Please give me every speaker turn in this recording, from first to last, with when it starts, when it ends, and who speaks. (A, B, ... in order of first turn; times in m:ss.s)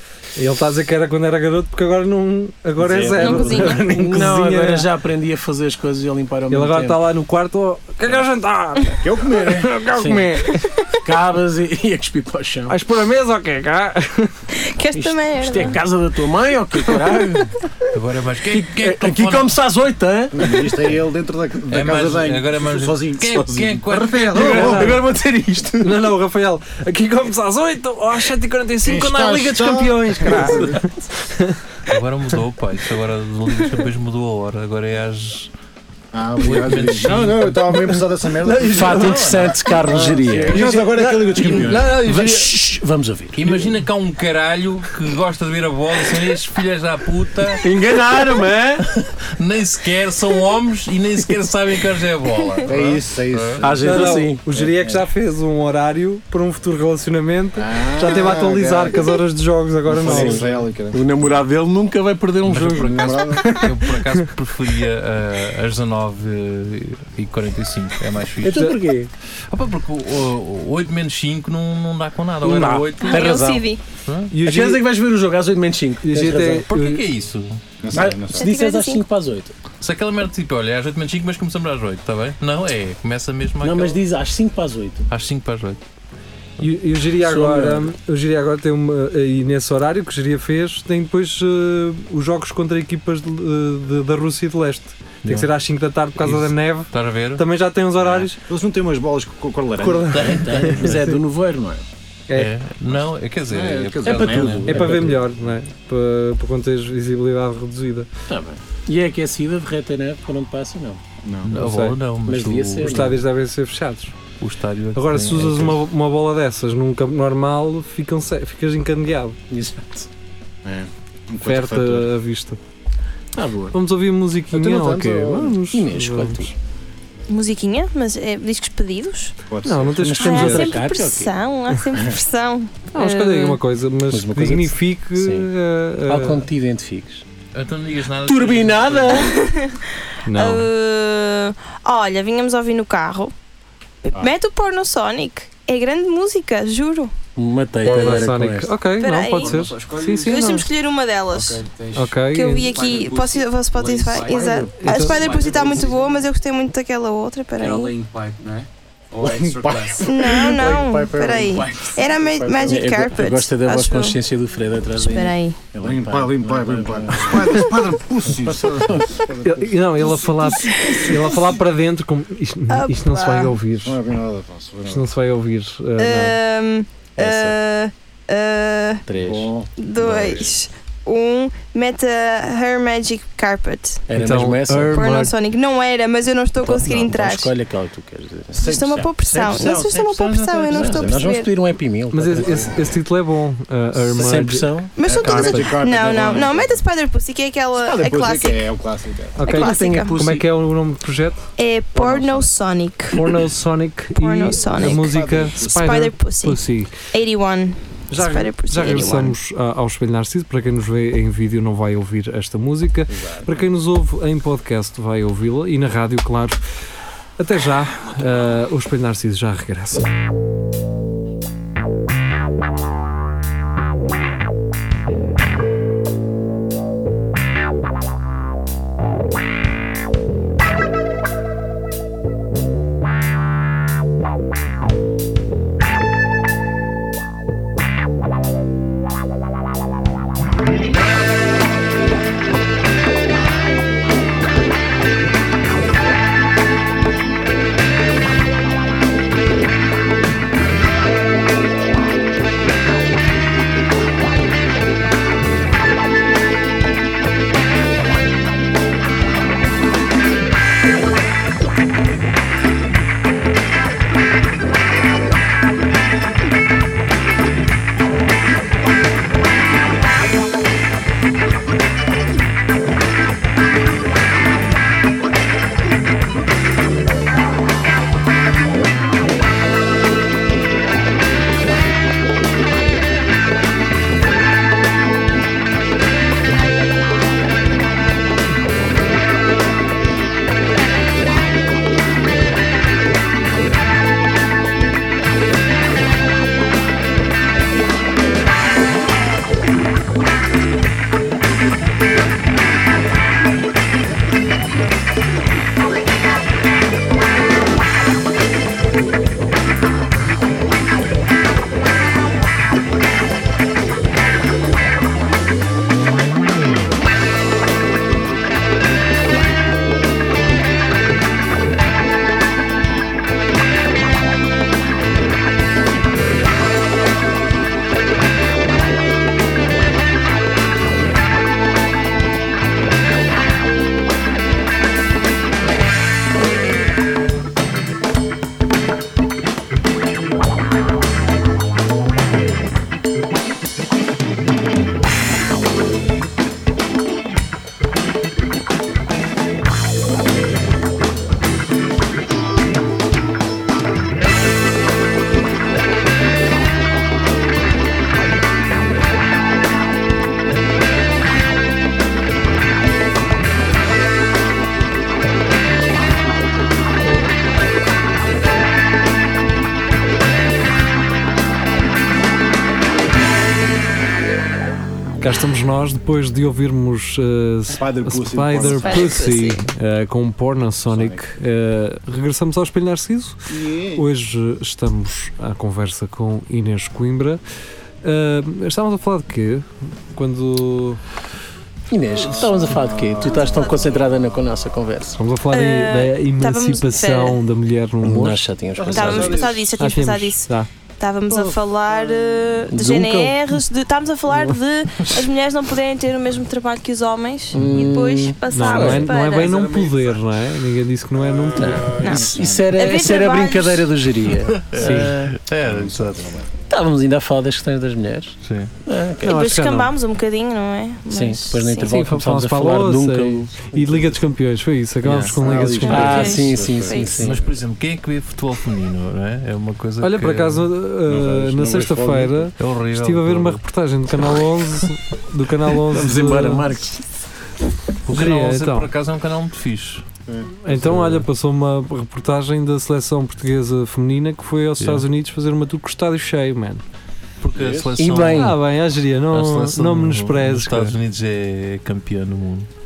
0:00.4-0:04.9 A
0:02.8-0:07.1 B
0:02.9-0:03.4 C
0:03.2-0:03.9 D
0:06.5-0:10.7 A
0:09.0-0:09.8 C
0:09.9-0:10.5 B
0:11.0-0:12.8 B
0:12.7-0:14.4 A
0:14.5-0:15.8 D
0:14.9-0:17.5 B
0:17.9-0:19.5 E
0:18.5-0:20.8 B
0:20.3-0:25.0 C
0:21.7-0:25.0 E
0:24.3-0:26.0 B
0:24.5-0:24.9 A
0:25.8-0:31.6 A
0:28.8-0:30.9 C
0:30.3-0:30.7 B
0:31.9-0:35.5 E
0:36.1-0:41.9 C
0:36.4-0:37.8 E
0:37.7-0:39.4 A
0:38.7-0:40.7 B
0:39.0-0:39.6 E
0:40.5-0:42.5 A
0:41.4-0:43.8 B
0:43.4-0:47.6 E
0:47.6-0:48.9 B
0:48.9-0:53.7 E
0:52.6-0:55.0 C
0:53.6-0:54.5 B
0:53.8-1:00.5 A
0:57.6-0:59.2 C
0:59.9-1:01.0 C
1:00.0-1:03.2 B
1:02.4-1:08.8 E
1:02.7-1:03.6 C
1:03.4-1:04.2 A
1:08.4-1:09.1 B
1:09.5-1:13.4 E
1:12.4-1:12.9 A
1:13.0-1:13.8 D
1:13.0-1:13.6 B
1:14.0-1:14.3 E
1:14.3-1:14.8 A
1:14.4-1:16.7 B
1:16.0-1:17.0 A
1:16.7-1:17.6 E
1:17.8-1:18.5 C
1:17.9-1:19.6 B
1:18.4-1:19.0 D
1:19.8-1:24.0 E
1:23.6-1:25.1 B
1:25.1-1:25.8 E
1:26.6-1:38.4 A
1:27.2-1:27.9 B
1:35.2-1:35.5 E
1:36.2-1:37.4 E
1:38.1-1:40.4 C
1:39.8-1:41.2 A
1:40.1-1:41.8 B
1:40.1-1:41.0 E
1:42.3-1:44.7 E
1:42.9-1:45.2 C
1:44.0-1:45.2 B
1:44.7-1:48.1 A
1:48.3-1:51.0 B
1:51.2-1:51.5 C
1:51.4-1:53.1 E
1:51.5-1:52.0 A
1:52.2-1:53.2 B
1:52.8-1:54.2 A
1:54.4-1:55.8 E
1:54.9-1:59.4 A
1:59.5-2:00.1 B
2:00.6-2:02.1 C
2:01.4-2:02.6 A
2:03.4-2:03.8 B
2:03.7-2:06.5 A
2:04.5-2:05.6 C
2:05.6-2:06.5 B
2:07.3-2:09.3 D
2:09.5-2:10.2 C
2:09.6-2:10.8 A
2:09.9-2:11.4 B
2:10.2-2:13.6 D
2:12.9-2:16.4 A
2:14.1-2:15.5 B
2:16.1-2:17.2 B
2:17.5-2:19.3 E
2:18.2-2:19.3 B
2:19.1-2:23.3 D
2:20.2-2:20.7 A
2:24.0-2:27.1 D
2:27.4-2:28.7 B
2:27.8-2:30.7 A
2:29.0-2:29.6 D
2:29.4-2:30.6 F
2:30.2-2:31.6 D
2:31.3-2:36.3 F
2:31.9-2:32.7 A
2:32.3-2:37.9 D
2:34.8-2:35.3 A
2:37.6-2:40.3 F
2:39.2-2:42.9 C
2:40.0-2:44.2 D
2:41.4-2:42.0 F
2:42.6-2:47.7 B
2:44.9-2:45.6 D
2:45.8-2:51.1 C
2:48.2-2:49.3 B
2:49.4-2:54.0 A
2:50.6-2:51.4 D
2:52.7-2:53.5 D
2:53.8-2:55.1 C
2:54.9-2:56.4 A
2:56.0-2:59.0 D
2:57.2-2:57.6 B
2:59.1-2:59.5 B
2:59.2-3:00.5 C
2:59.8-3:04.1 D
3:04.1-3:05.0 B
3:04.1-3:05.3 A
3:04.9-3:07.5 D
3:06.6-3:08.7 B
3:08.5-3:11.3 C
3:08.6-3:11.5 D
3:09.5-3:09.9 B
3:10.7-3:12.7 B
3:12.1-3:15.8 A
3:14.0-3:14.9 B
3:14.9-3:18.7 D
3:15.0-3:16.8 C
3:17.8-3:19.4 C
3:19.4-3:21.5 A
3:19.4-3:20.2 D
3:19.5-3:20.5 B
3:21.6-3:23.2 D
3:22.0-3:22.2 C
3:23.1-3:26.9 A
3:24.1-3:29.4 D
3:24.7-3:25.9 C
3:28.1-3:36.6 A
3:33.1-3:33.6 C
3:37.4-3:40.1 A
6:15.2-6:27.4 A
6:17.8-6:19.2 C
6:18.6-6:19.6 D
6:20.9-6:21.2 C
6:23.5-6:24.0 C
6:28.0-6:31.0 A
6:31.9-6:35.2 B
6:32.1-6:34.7 C
6:33.2-6:33.9 D
6:35.2-6:38.4 A
6:35.5-6:37.4 D
6:38.0-6:39.6 B
6:38.8-6:39.7 C
6:38.9-6:49.7 D
6:39.8-6:40.7 A
6:41.3-6:42.5 C
6:42.7-6:43.4 B
6:47.5-6:50.0 B
6:48.5-6:52.0 A
6:49.5-6:49.9 F
6:51.2-6:52.8 C
6:51.6-6:55.4 B
6:52.0-6:53.9 D
6:54.4-6:56.3 E
6:54.8-6:55.1 A
6:55.6-6:56.5 C
6:56.7-6:59.4 B
6:58.4-6:58.7 E
6:59.2-6:59.9 A
6:59.2-7:02.0 D
7:01.1-7:04.2 B
7:01.8-7:06.4 A
7:05.0-7:05.4 E
7:05.3-7:07.4 B
7:05.4-7:07.5 C
7:05.8-7:07.3 D
7:07.1-7:10.7 E
7:10.0-7:16.8 A
7:11.1-7:12.5 C
7:12.6-7:13.6 E
7:15.8-7:17.0 B
7:18.0-7:20.1 E
7:18.1-7:18.9 A
7:20.3-7:21.0 C
7:20.6-7:26.8 A
7:20.8-7:21.2 E
7:24.8-7:25.1 E
7:27.4-7:28.6 E
7:27.5-7:27.9 C
7:28.0-7:28.6 B
7:28.3-7:31.0 A
7:29.3-7:32.7 E